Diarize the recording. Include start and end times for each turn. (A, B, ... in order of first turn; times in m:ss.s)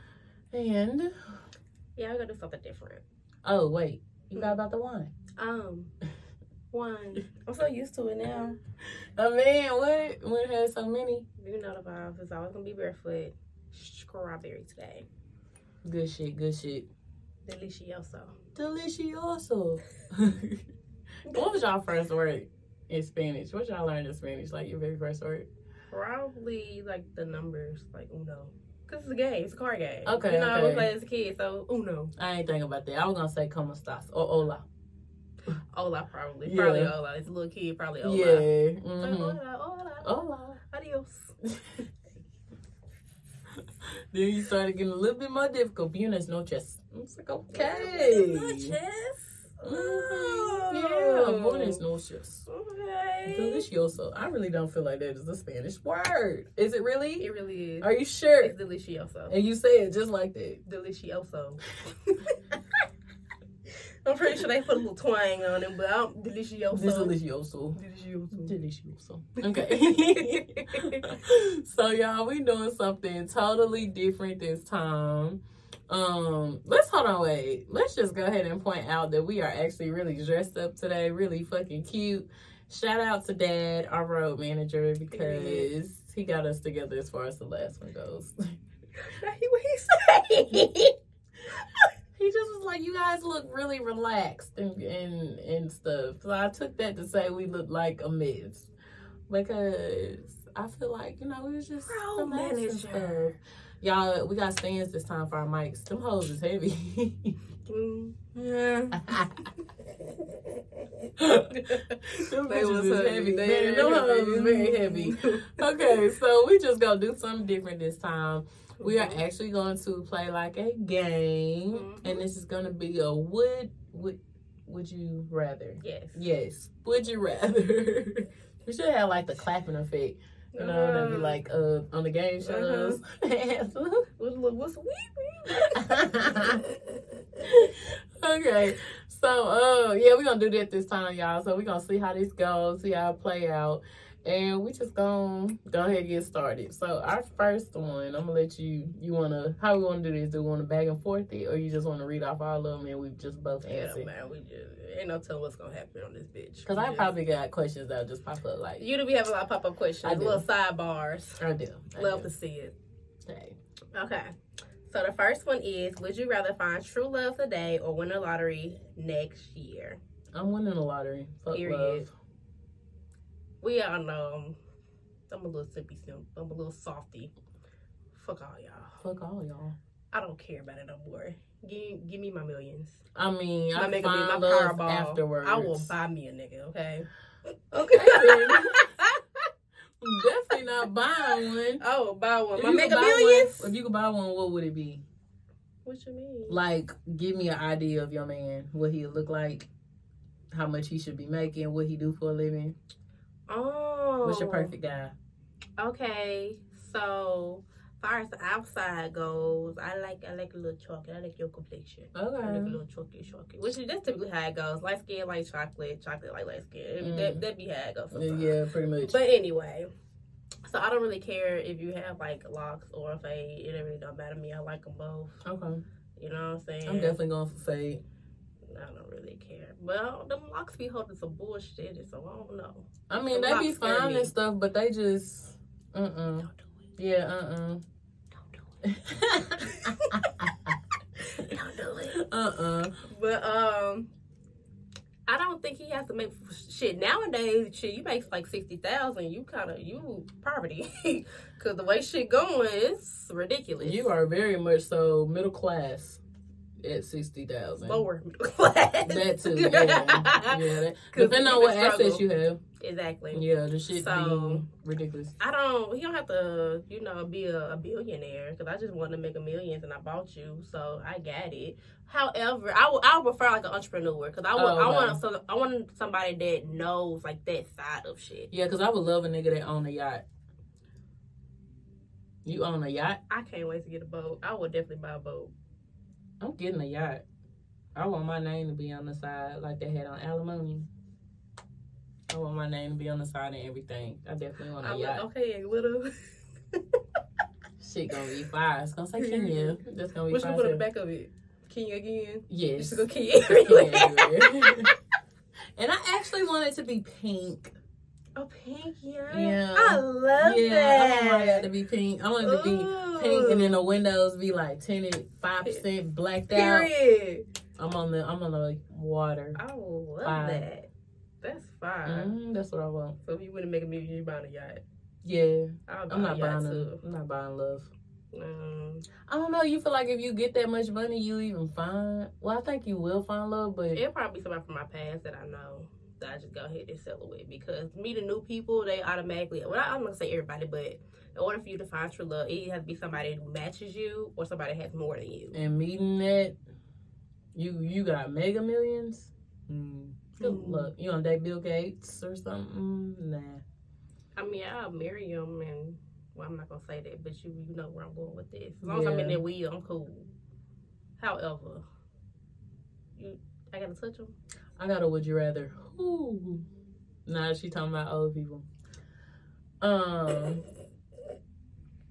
0:00.5-0:01.2 A
0:02.0-0:03.0 B
0:03.4-0:05.1 A
0:05.4-0:05.9 B
0:06.7-0:08.6 B
0:09.2-0:11.2 A
0:11.4-0:15.0 B
0:15.8-0:16.9 A
0:17.4-0:18.3 B
0:18.5-0:20.6 A
0:21.3-0:25.5 A
0:25.9-0:32.1 B
0:30.0-0:30.9 A
0:32.2-0:34.6 A
0:35.7-0:38.5 B
0:36.4-0:36.9 A
0:38.0-0:39.4 A
0:39.0-0:41.3 B
0:40.0-0:40.6 A
0:41.4-0:41.8 A
0:44.1-0:48.8 A
0:47.5-0:51.8 B
0:49.6-0:52.4 A
0:52.5-0:53.6 B
0:53.2-0:57.3 A
0:57.2-0:57.9 B
0:57.8-0:58.5 A
0:58.4-0:59.3 B
0:59.3-1:00.6 A
1:00.6-1:02.4 B
1:04.0-1:07.1 B
1:06.7-1:07.8 A
1:07.8-1:08.6 B
1:08.3-1:28.6 A
1:09.4-1:11.2 B
1:25.1-1:25.7 B
1:29.0-1:30.9 B
1:32.1-1:38.7 A
1:39.3-1:47.4 A
1:41.8-1:43.4 B
1:47.7-1:49.2 B
1:49.0-1:49.4 A
1:51.2-2:14.1 A
1:51.5-1:56.1 B
1:58.8-1:59.2 B
2:01.7-2:02.2 B
2:05.8-2:06.3 B
2:10.5-2:11.4 B
2:12.4-2:13.0 B
2:14.2-2:16.6 B
2:15.5-2:16.6 A
2:17.4-2:34.1 A
2:33.6-2:37.1 B
2:36.6-2:38.8 A
2:38.8-2:41.4 B
2:40.0-2:40.4 A
2:41.4-2:42.3 A
2:42.0-2:42.7 B
2:43.3-2:43.6 A
2:43.9-2:44.3 B
2:44.9-2:50.0 B
2:50.3-2:52.1 A
2:51.5-2:52.0 B
2:53.6-2:54.6 B
2:55.3-2:57.3 B
2:58.1-2:59.0 B
2:59.0-2:59.8 A
3:00.1-3:03.0 B
3:03.1-3:05.9 A
3:03.7-3:07.1 B
3:07.7-3:08.9 A
3:07.8-3:09.5 B
3:10.0-3:11.8 A
3:11.3-3:13.7 B
3:12.6-3:15.0 A
3:15.8-3:16.6 B
3:16.5-3:19.7 A
3:20.5-3:22.8 A
3:23.5-3:24.7 B
3:24.2-3:25.1 A
3:25.8-3:39.9 B
3:32.1-3:32.8 A
3:37.0-3:37.4 A
3:38.1-3:39.2 A
3:40.6-3:45.4 B
3:45.4-3:45.8 A
3:46.2-3:47.2 B
3:46.8-3:48.0 A
3:48.7-3:54.3 B
3:53.1-3:57.8 A
3:58.8-4:00.5 A
3:59.6-4:00.5 B
4:01.2-4:02.2 B
4:02.1-4:02.9 A
4:03.1-4:04.1 B
4:05.3-4:14.1 B
4:13.8-4:16.2 A
4:16.8-4:18.0 A
4:17.8-4:22.2 B
4:19.0-4:22.6 A
4:22.8-4:24.6 B
4:23.3-4:25.3 A
4:25.4-4:38.5 B
4:34.5-4:35.2 A
4:38.5-4:40.2 A
4:42.4-4:43.2 A
4:43.3-4:45.5 B
4:46.4-4:47.2 A
4:47.9-4:50.9 A
4:52.3-4:55.2 A
4:54.8-4:56.1 B
4:56.7-4:57.0 B
4:57.8-5:00.8 A
4:59.2-5:04.9 B
5:02.5-5:04.9 A
5:05.8-5:07.7 A
5:08.4-5:11.7 B
5:09.3-5:16.9 A
5:12.4-5:13.8 B
5:16.5-5:17.4 B
5:17.8-5:19.6 A
5:19.6-5:20.9 B
5:20.2-5:20.6 A
5:21.4-5:22.3 B
5:22.0-5:23.2 A
5:23.2-5:24.8 B
5:25.2-5:27.9 A
5:25.9-5:27.0 B
5:28.3-5:29.0 B
5:29.3-5:34.0 A
5:33.9-5:45.6 B
5:45.5-5:46.6 A
5:47.5-5:53.6 A
5:50.4-5:50.9 B
5:54.4-6:00.3 B
5:58.8-5:59.4 A
6:01.2-6:01.8 B
6:03.2-6:04.3 B
6:04.8-6:06.6 A
6:07.2-6:08.7 A
6:09.8-6:10.6 A